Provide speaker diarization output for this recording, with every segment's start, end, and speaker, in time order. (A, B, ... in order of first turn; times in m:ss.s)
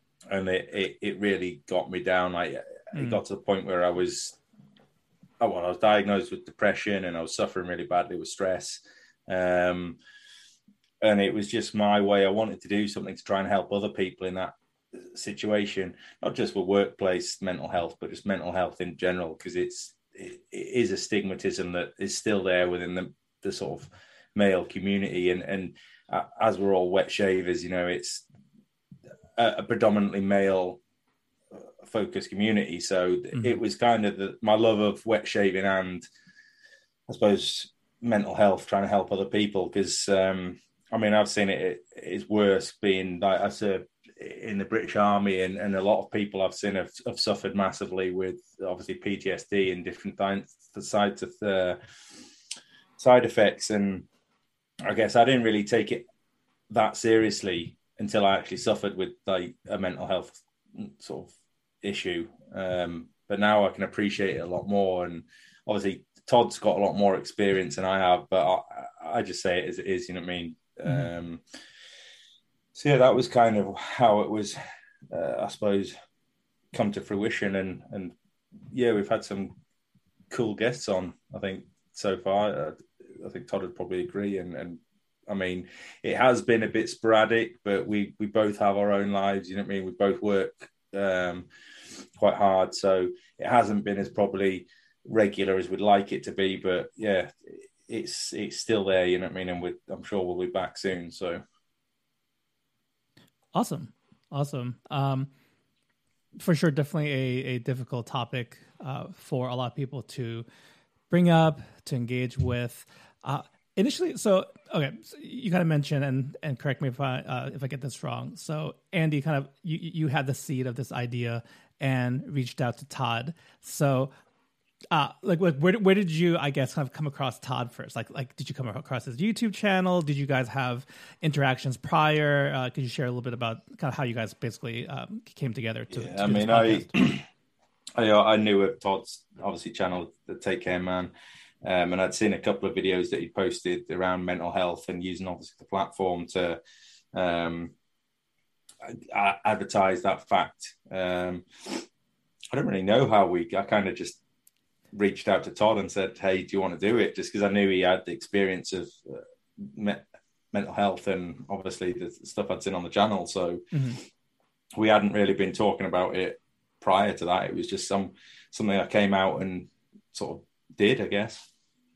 0:00.3-0:04.4 A
0:02.9-0:03.2 B
0:05.4-0:10.0 A
0:11.0-0:14.5 A
0:15.1-0:28.2 A
0:29.4-0:30.8 A
0:31.5-0:36.0 A
0:37.1-0:51.8 A
0:53.0-0:54.0 A
0:54.8-0:56.0 A
0:56.7-1:01.3 A
1:01.8-1:11.4 A
1:12.7-1:14.6 A
1:15.1-1:15.9 A
1:16.7-1:18.1 A
1:18.7-1:19.5 A
1:20.3-1:31.5 A
1:32.2-1:41.4 A
1:43.5-1:45.3 B
1:46.4-1:50.4 B
1:51.1-2:04.1 B
2:04.9-2:16.9 B
2:15.9-2:17.2 A
2:18.0-2:21.1 A
2:21.6-2:26.6 A
2:27.1-2:27.7 A
2:29.1-2:31.8 A
2:32.5-2:34.2 A
2:34.9-2:43.6 A
2:43.7-2:44.0 B
2:44.8-2:51.5 A